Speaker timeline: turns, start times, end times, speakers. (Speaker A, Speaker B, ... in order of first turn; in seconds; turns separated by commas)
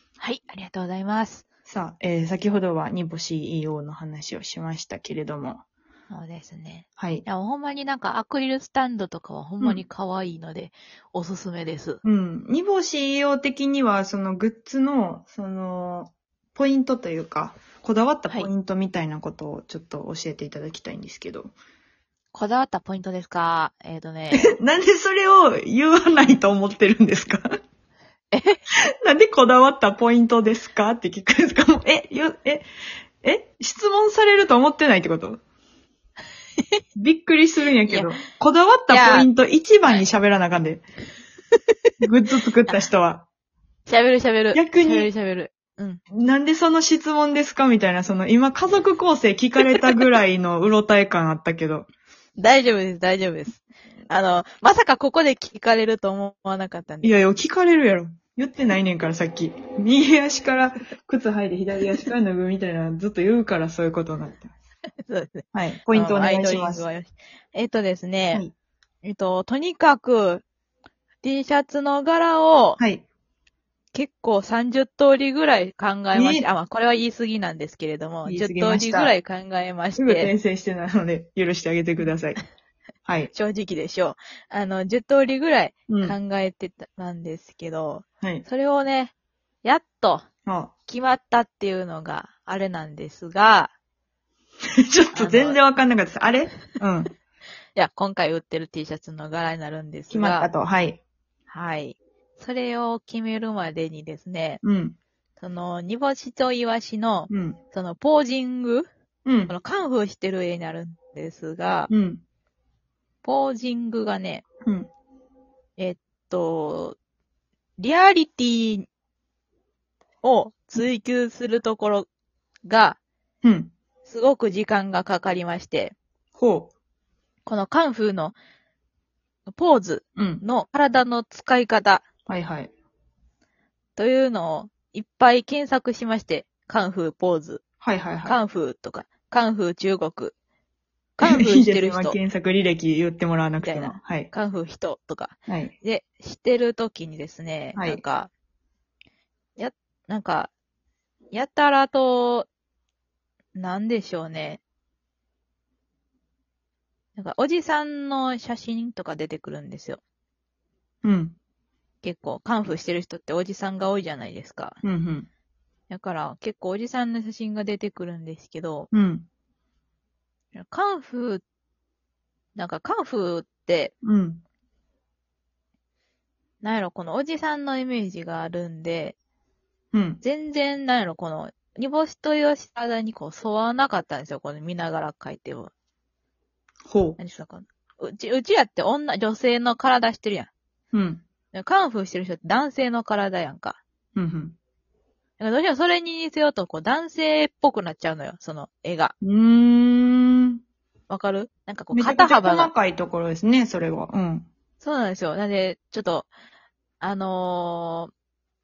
Speaker A: 0.2-1.4, Speaker B: 1.7-5.6, Speaker A: 6.1-12.0, Speaker B: 7.0-7.2, Speaker B: 12.0-21.5, Speaker A: 22.3-24.5, Speaker B: 24.3-27.5, Speaker A: 28.3-28.6, Speaker B: 29.0-32.6, Speaker B: 33.2-35.4, Speaker B: 37.0-40.8, Speaker A: 37.9-38.1, Speaker A: 38.9-39.3, Speaker B: 42.0-43.2, Speaker A: 43.9-46.0, Speaker B: 44.5-45.1, Speaker B: 46.1-51.9, Speaker A: 52.4-57.1, Speaker B: 57.0-64.5, Speaker A: 65.0-68.4, Speaker B: 65.5-66.8, Speaker A: 69.0-70.4, Speaker A: 71.2-72.8, Speaker B: 72.8-73.0, Speaker A: 73.9-80.3, Speaker B: 76.1-76.5, Speaker B: 78.2-79.1, Speaker B: 80.0-82.4, Speaker B: 83.0-83.3, Speaker A: 83.3-89.1, Speaker B: 85.9-86.2, Speaker A: 89.6-90.2, Speaker B: 90.5-90.7, Speaker A: 90.9-93.7, Speaker B: 94.8-97.1, Speaker A: 95.1-95.6, Speaker A: 97.7-100.5, Speaker B: 100.1-101.0, Speaker A: 101.5-104.6, Speaker B: 104.6-105.0, Speaker A: 105.4-108.9, Speaker B: 107.3-107.6, Speaker B: 109.2-109.5, Speaker A: 109.5-111.9, Speaker B: 111.9-112.2, Speaker A: 113.2-114.4, Speaker B: 114.6-114.9, Speaker A: 115.8-117.0, Speaker A: 117.8-118.9, Speaker A: 120.2-122.1, Speaker A: 122.7-123.0, Speaker B: 123.4-123.7, Speaker A: 124.0-125.9, Speaker B: 126.3-126.7, Speaker A: 127.5-128.3, Speaker A: 129.5-132.0, Speaker B: 130.2-130.4, Speaker B: 132.3-132.7, Speaker A: 134.0-137.6, Speaker B: 137.8-138.4, Speaker A: 138.2-140.3, Speaker A: 141.2-142.2, Speaker B: 141.2-144.3, Speaker A: 143.6-148.3, Speaker B: 145.5-145.7, Speaker B: 147.7-148.0, Speaker A: 149.6-150.5, Speaker A: 151.3-152.5, Speaker A: 153.5-154.6, Speaker A: 157.2-160.0, Speaker B: 161.0-161.3, Speaker A: 162.0-164.8, Speaker B: 164.8-165.3, Speaker A: 165.9-168.9, Speaker B: 168.9-169.2, Speaker A: 170.5-171.4, Speaker A: 172.6-173.9, Speaker B: 174.0-174.4, Speaker A: 176.6-179.1, Speaker B: 179.9-180.2, Speaker A: 180.2-185.7, Speaker B: 186.9-187.2, Speaker A: 187.2-190.5, Speaker B: 190.9-191.2, Speaker A: 191.5-193.8, Speaker B: 194.2-194.6, Speaker A: 195.4-199.1, Speaker B: 199.2-200.6, Speaker A: 201.1-202.7, Speaker B: 201.9-204.5, Speaker A: 204.8-206.3, Speaker A: 207.0-208.1